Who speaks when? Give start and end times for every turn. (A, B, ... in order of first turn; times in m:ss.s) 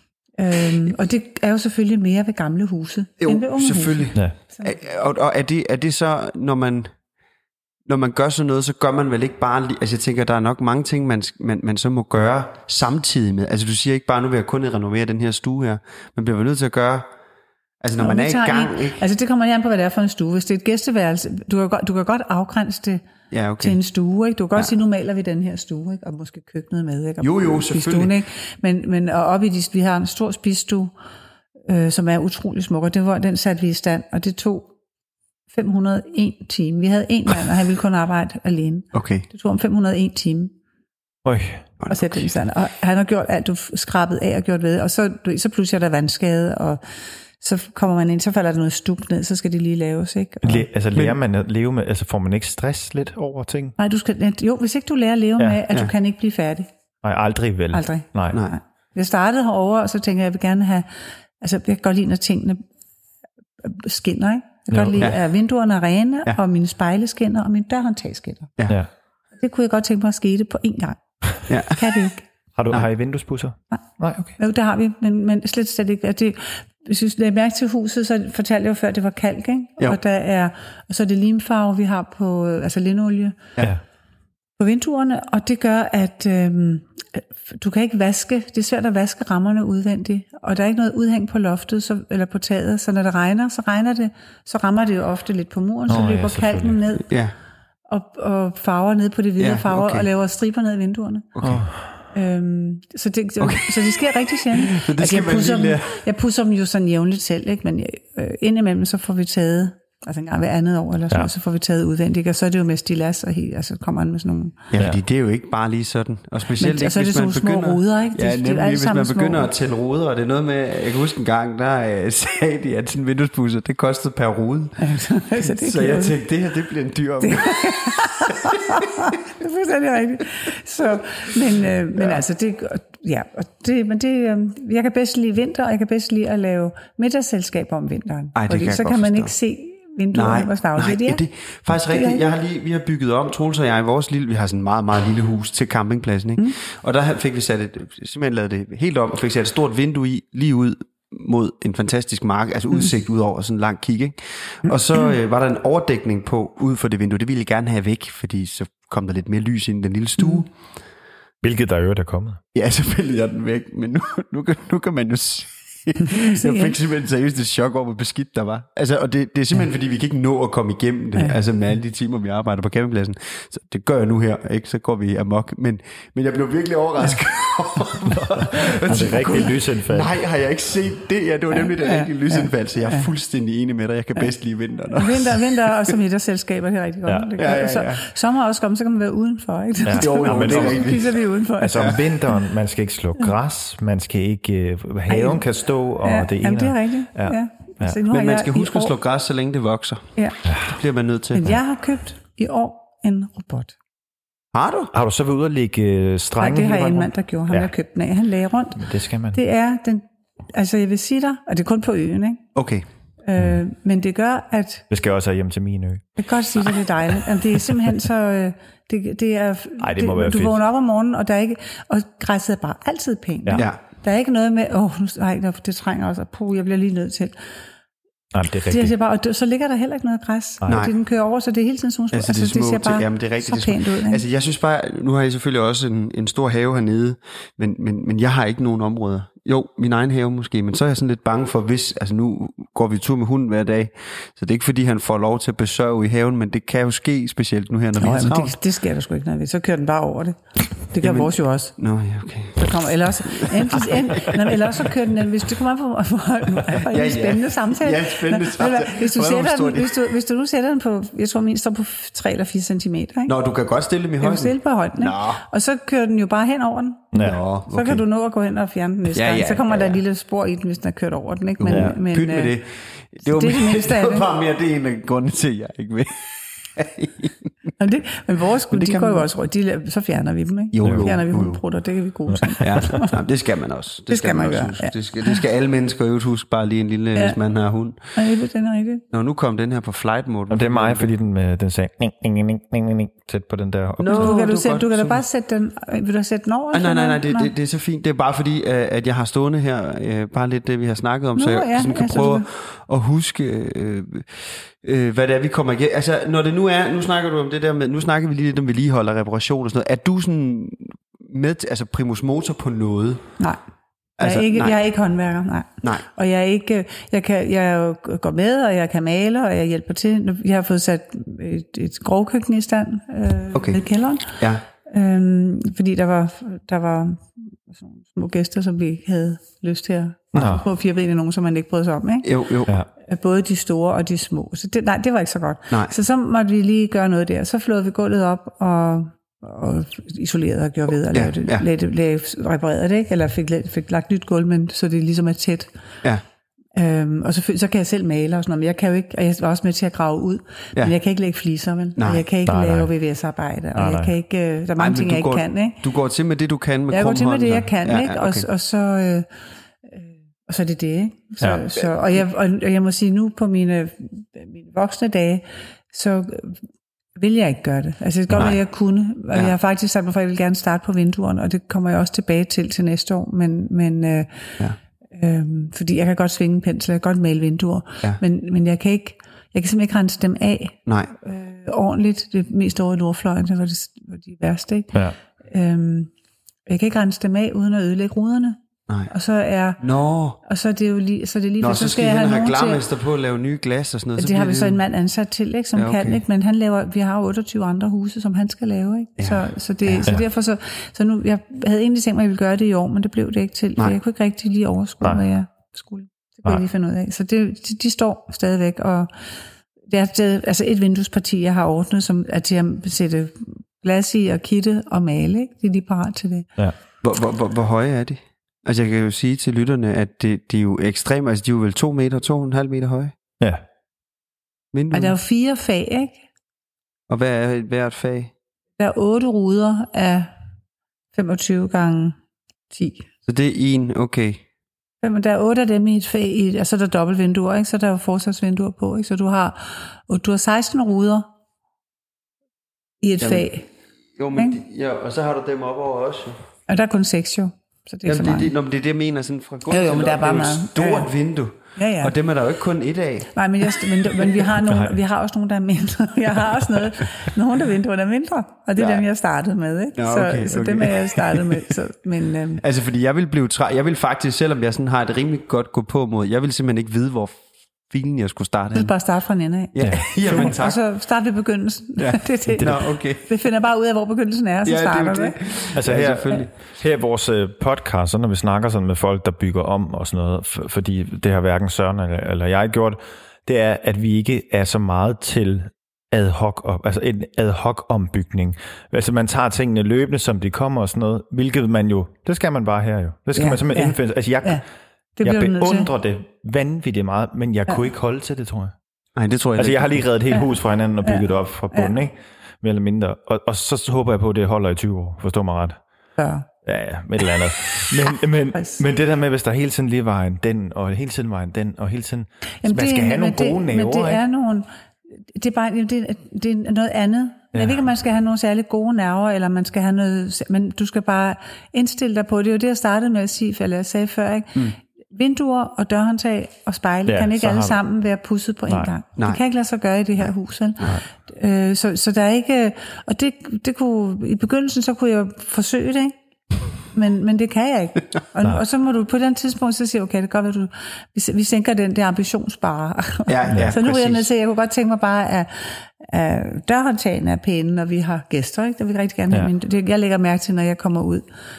0:00.4-0:04.7 A
0:03.2-0:06.9 B
0:07.8-0:17.1 B
0:17.8-0:19.0 B
0:18.0-0:23.0 A
0:23.3-0:23.8 B
0:23.6-0:30.9 A
0:27.2-0:28.1 B
0:31.7-0:34.7 A
0:35.5-0:40.5 A
0:38.9-0:39.2 B
0:41.2-0:41.6 C
0:41.8-0:42.2 B
0:41.9-0:46.8 A
0:47.4-0:50.7 A
0:50.4-0:53.7 C
0:53.8-0:56.7 A
0:57.0-0:58.4 C
0:57.7-1:00.9 A
1:01.4-1:02.6 A
1:03.6-1:08.6 A
1:04.7-1:05.0 C
1:09.4-1:11.0 A
1:11.5-1:12.0 B
1:11.5-1:12.3 A
1:12.6-1:14.4 C
1:14.4-1:23.4 A
1:24.6-1:37.1 A
1:35.9-1:36.8 C
1:37.0-1:37.3 B
1:37.9-1:41.3 A
1:39.4-1:40.0 B
1:41.3-1:41.6 B
1:41.4-1:41.8 C
1:42.1-1:54.7 A
1:43.4-1:46.0 B
1:54.7-2:04.8 B
1:56.6-1:59.5 A
2:04.8-2:06.2 A
2:05.4-2:09.1 B
2:07.2-2:21.2 A
2:11.9-2:12.2 B
2:18.4-2:19.3 B
2:20.1-2:40.5 B
2:21.9-2:22.2 A
2:41.4-2:42.4 C
2:42.5-3:05.9 B
2:46.1-2:46.7 A
2:58.0-3:00.1 C
3:01.8-3:03.1 A
3:04.9-3:12.0 A
3:07.1-3:07.3 C
3:07.4-3:08.0 B
3:09.8-3:11.0 C
3:09.9-3:11.2 B
3:11.6-3:18.0 C
3:11.7-3:12.0 B
3:15.1-3:15.4 A
3:16.0-3:18.9 A
3:18.1-3:20.1 B
3:20.4-3:20.7 C
3:20.6-3:21.6 B
3:21.3-3:23.8 A
3:24.5-3:24.9 B
3:24.9-3:27.7 C
3:26.4-3:32.4 A
3:28.8-3:29.4 C
3:32.5-3:32.8 B
3:33.2-3:34.8 A
3:34.9-3:36.1 C
3:36.2-3:47.3 A
3:39.8-3:40.6 C
3:48.3-3:48.9 C
3:48.6-3:54.2 A
3:50.6-3:50.9 C
3:50.7-3:50.9 B
3:52.1-4:08.6 B
4:08.0-4:11.8 A
4:11.0-4:14.4 B
4:12.5-4:23.3 A
4:16.8-4:20.1 B
4:23.3-4:25.4 B
4:24.2-4:27.1 A
4:27.1-4:27.4 C
4:27.1-4:28.0 B
4:27.7-4:32.6 A
4:29.1-4:30.0 B
4:31.6-4:37.5 B
4:31.7-4:31.9 C
4:33.2-4:34.3 A
4:37.8-4:43.1 A
4:38.7-4:39.3 B
4:40.7-4:41.6 B
4:40.8-4:41.1 C
4:42.6-4:48.0 B
4:44.1-4:45.4 A
4:48.1-4:49.0 A
4:49.1-4:51.1 B
4:50.5-4:54.4 C
4:54.0-4:55.2 B
4:54.0-4:57.5 A
4:56.7-5:13.3 B
5:01.4-5:02.5 A
5:14.2-5:14.7 B
5:14.2-5:32.3 A
5:23.5-5:24.6 B
5:30.3-5:30.6 C
5:32.2-5:32.7 B
5:33.0-5:45.7 A
5:41.1-5:41.6 B
5:46.8-5:55.8 A
5:52.0-5:52.2 B
5:52.4-5:52.9 C
5:53.7-5:54.1 C
5:54.8-5:58.5 B
5:56.9-5:59.3 A
5:59.8-6:06.6 A
6:07.1-6:14.6 A
6:15.1-6:24.9 A
6:20.8-6:21.1 B
6:25.4-6:26.1 A
6:26.7-6:29.8 A
6:29.8-6:30.4 B
6:30.4-6:32.8 A
6:31.6-6:34.8 B
6:34.2-6:49.1 A
6:35.7-6:36.2 B
6:39.2-6:40.1 B
6:49.9-6:56.5 A
6:57.0-7:03.1 B
7:04.7-7:05.2 B
7:04.9-7:06.2 A
7:07.1-7:08.3 B
7:08.8-7:10.3 A
7:11.1-7:12.2 A
7:12.7-7:13.1 A
7:13.2-7:14.4 B
7:15.0-7:21.3 A
7:23.0-7:23.7 A
7:23.2-7:23.5 B
7:24.2-7:26.4 B
7:26.7-7:28.5 A
7:28.0-7:34.5 B
7:29.7-7:31.1 A
7:31.8-7:32.1 A
7:33.3-7:42.6 A
7:34.6-7:34.9 C
7:38.8-7:39.0 B
7:40.0-7:41.7 B
7:42.6-7:48.9 B
7:48.7-7:55.4 A
7:49.7-7:50.8 B
7:49.8-7:50.6 C
7:52.0-7:53.2 B
7:54.6-7:56.5 B
7:55.7-8:14.6 C
8:13.3-8:14.6 A
8:15.2-8:15.9 A
8:15.2-8:18.7 C
8:19.2-8:20.0 B
8:19.6-8:25.8 C
8:20.3-8:21.9 A
8:26.2-8:26.4 A
8:26.6-8:34.2 C
8:28.6-8:28.8 A
8:32.6-8:34.7 A
8:35.3-8:56.1 A
8:37.5-8:37.8 C
8:47.0-8:47.8 C
8:48.7-8:48.9 C
8:56.9-9:11.3 A
9:03.3-9:04.3 B
9:03.5-9:03.8 C